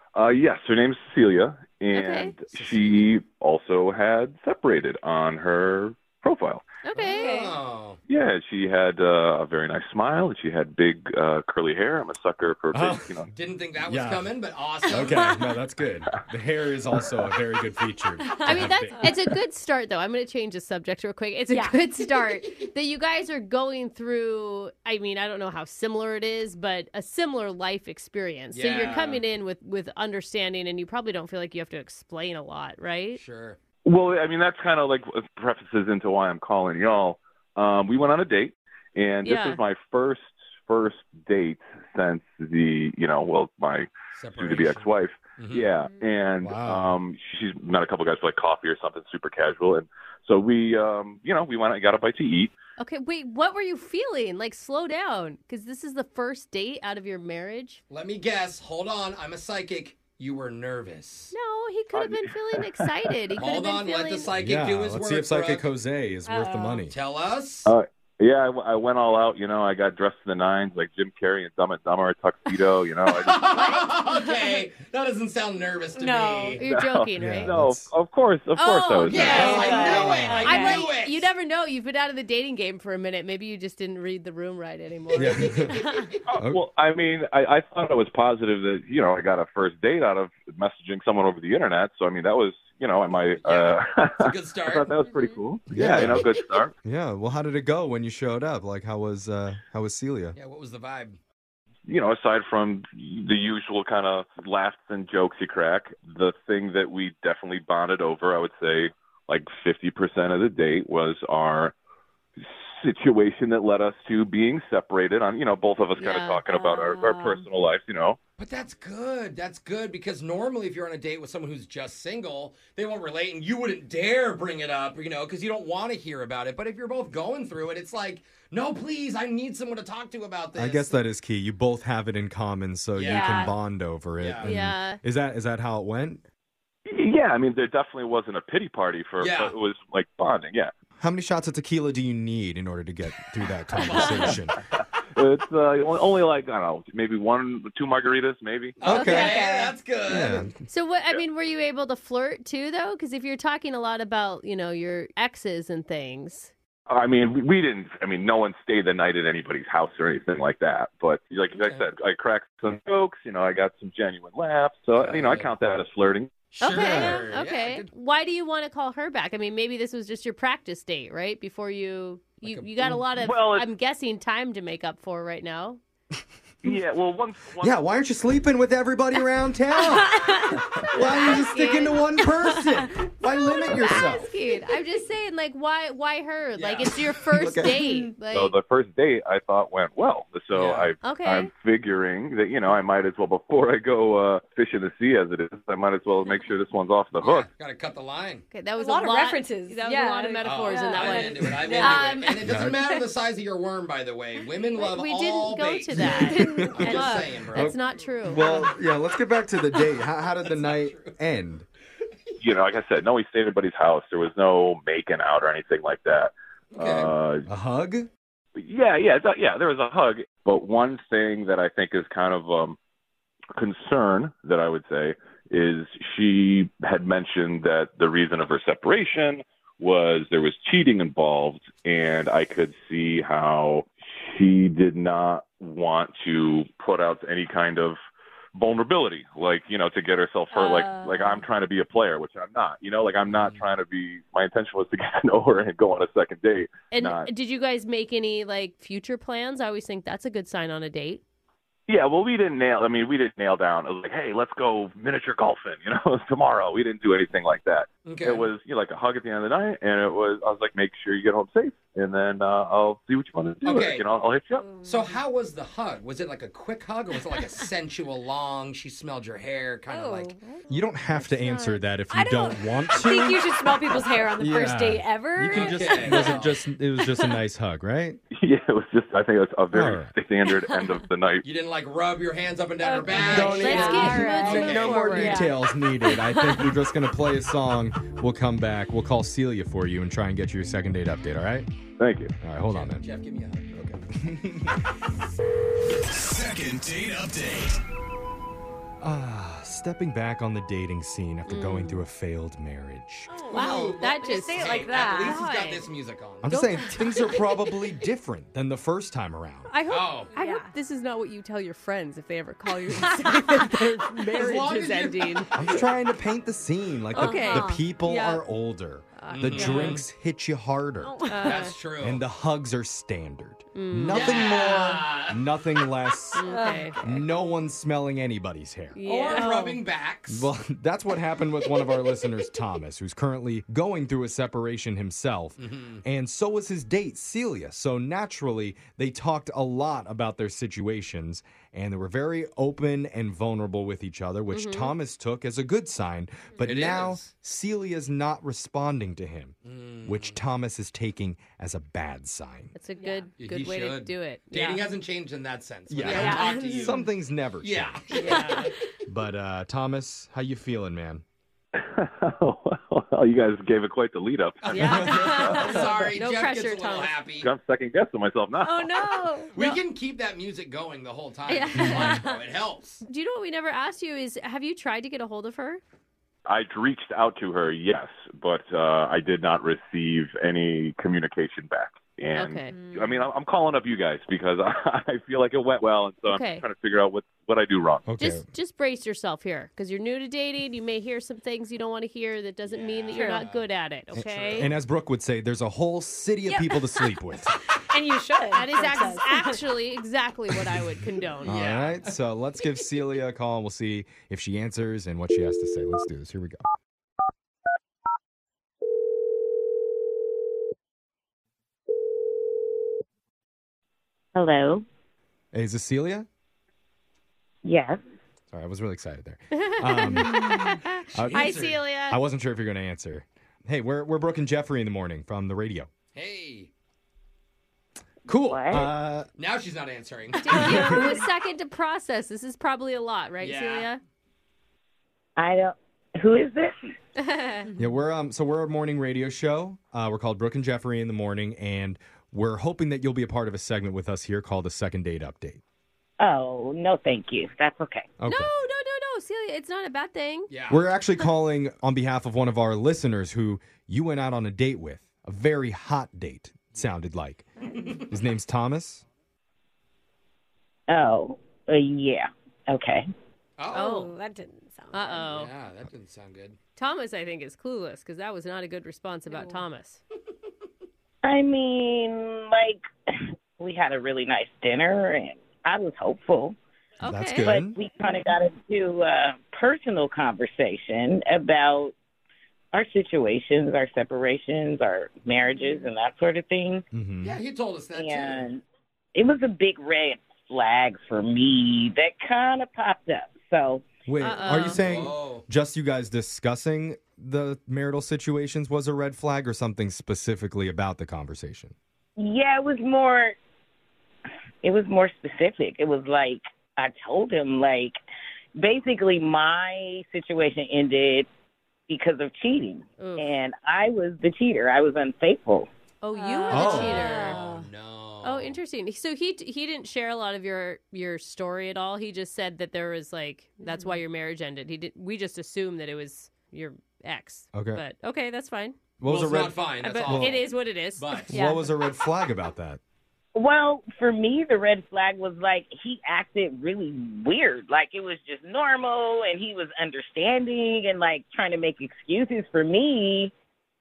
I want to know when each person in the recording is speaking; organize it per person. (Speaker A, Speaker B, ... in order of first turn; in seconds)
Speaker A: 0.1-6.6, 8.1-13.3, 33.8-52.5, 61.9-62.7, 67.7-73.4, 76.6-80.0, 86.3-96.7, 101.9-111.7, 112.4-118.2, 136.9-140.7, 145.2-148.8, 156.9-166.3, 173.2-173.7, 176.6-177.8, 188.3-197.5, 212.4-217.4, 218.6-222.8, 223.6-238.0, 238.6-247.3, 251.9-264.6, 278.3-281.4, 292.0-292.3, 361.8-366.0, 367.4-369.1, 376.5-388.0
Speaker B: 1.9-2.3, 6.8-7.5, 18.4-33.2, 39.2-39.6, 52.8-57.8, 61.3-64.3, 73.5-74.4, 76.6-77.5, 78.6-85.8, 116.0-116.4, 134.4-135.0, 148.9-149.6, 150.6-156.5, 166.6-175.8, 180.9-182.1, 183.3-188.5, 191.0-191.5, 198.5-202.2, 204.8-208.6, 246.9-251.2, 270.6-271.9, 283.6-285.5, 301.5-302.0, 303.5-305.9, 306.4-307.3, 309.7-315.5, 317.1-318.3, 319.2-320.0, 321.3-321.7, 323.7-324.6, 326.3-327.0, 328.9-329.5, 344.5-344.9, 352.7-354.9, 358.1-358.7, 364.7-367.1, 371.5-372.2, 373.0-375.8, 382.3-382.8, 386.2-386.6, 388.2-394.7, 398.5-401.6, 419.7-422.2, 430.4-434.0, 437.2-437.7, 448.3-450.5, 463.7-464.1, 464.9-465.5, 466.8-470.0, 494.2-494.8, 513.0-513.3, 516.0-517.4, 518.2-528.8, 529.8-531.3
Speaker C: 2.6-3.1, 7.0-8.0, 13.3-15.3, 28.5-29.2, 33.1-33.6, 44.1-45.7, 57.9-61.3, 63.4-65.7, 66.9-67.7, 73.1-76.6, 79.1-81.3, 93.1-94.9, 95.7-96.2, 100.3-101.2, 118.4-130.9, 132.9-133.5, 134.2-134.5, 139.2-139.5, 143.8-144.4, 148.8-150.4, 161.5-161.8, 164.9-165.5, 166.5-167.9, 172.4-173.0, 186.5-187.2, 190.5-190.9, 197.1-198.4, 200.4-207.8, 210.1-211.1, 216.7-217.1, 243.3-243.7, 258.0-258.5, 263.6-264.1, 264.8-270.3, 275.4-276.6, 281.4-285.0, 292.6-294.0, 303.4-306.6, 309.9-310.3, 314.3-315.9, 319.3-320.0, 321.4-322.2, 324.1-325.4, 329.0-330.5, 335.6-336.0, 346.6-347.3, 349.6-350.4, 353.4-357.0, 357.6-358.8, 364.7-367.5, 369.5-373.0, 392.7-394.7, 401.4-402.2, 421.2-421.8, 426.1-426.7, 429.3-431.0, 433.4-433.9, 450.5-450.9, 457.7-458.1, 463.6-463.9, 465.3-466.6, 487.2-488.5, 494.6-495.4, 516.7-518.5, 529.0-531.4
Speaker D: 12.7-13.2, 13.8-14.3, 14.8-19.1, 46.4-47.0, 64.3-66.9, 77.2-77.9, 79.4-80.5, 85.1-85.8, 86.3-86.6, 95.7-96.3, 96.8-100.4, 130.5-136.2, 141.0-144.6, 148.8-149.4, 150.1-150.6, 166.8-167.2, 177.6-184.3, 187.4-187.8, 202.4-202.8, 205.9-211.7, 217.5-218.1, 270.7-278.2, 279.7-280.1, 283.2-291.7, 292.4-293.0, 294.1-294.8, 296.1-297.7, 299.0-303.3, 306.4-309.7, 315.5-321.3, 322.0-329.0, 330.3-352.7, 355.9-358.3, 359.1-361.2, 371.7-372.1, 388.1-388.4, 394.1-397.6, 401.4-406.6, 415.5-416.3, 418.5-425.9, 428.2-429.3, 430.5-431.1, 437.8-445.6, 448.2-448.5, 450.7-457.5, 458.0-459.0, 477.0-477.8, 486.9-487.3, 494.1-501.7, 516.5-517.1, 527.5-527.8, 529.0-530.4, 531.3-532.8
Speaker E: 14.9-15.5, 18.3-19.1, 21.5-22.3, 66.2-66.9, 76.0-76.6, 79.1-80.8, 116.5-117.5, 133.0-133.5, 149.1-149.7, 179.9-180.5, 198.8-203.1, 206.2-207.3, 240.5-241.4, 264.5-265.2, 269.9-270.6, 272.1-276.4, 280.5-281.0, 282.8-286.7, 303.3-305.4, 310.3-310.7, 312.9-313.7, 317.1-318.4, 321.0-321.6, 326.4-327.2, 329.3-329.8, 353.0-353.3, 356.1-357.1, 365.4-365.8, 368.6-369.6, 371.7-372.2, 382.7-383.1, 393.1-393.5, 396.4-397.2, 397.7-399.6, 463.8-465.3, 469.3-469.6, 477.1-477.4, 516.1-517.7, 523.7-524.0, 531.3-531.7
Speaker F: 414.3-414.8, 417.6-418.0, 428.4-428.9, 435.4-436.9, 446.2-448.1, 460.9-463.1, 471.2-476.6, 477.4-481.9, 482.7-486.8, 487.9-488.6, 489.1-493.8, 502.2-503.3, 504.6-508.0, 508.6-511.3, 511.9-515.7, 533.3-543.3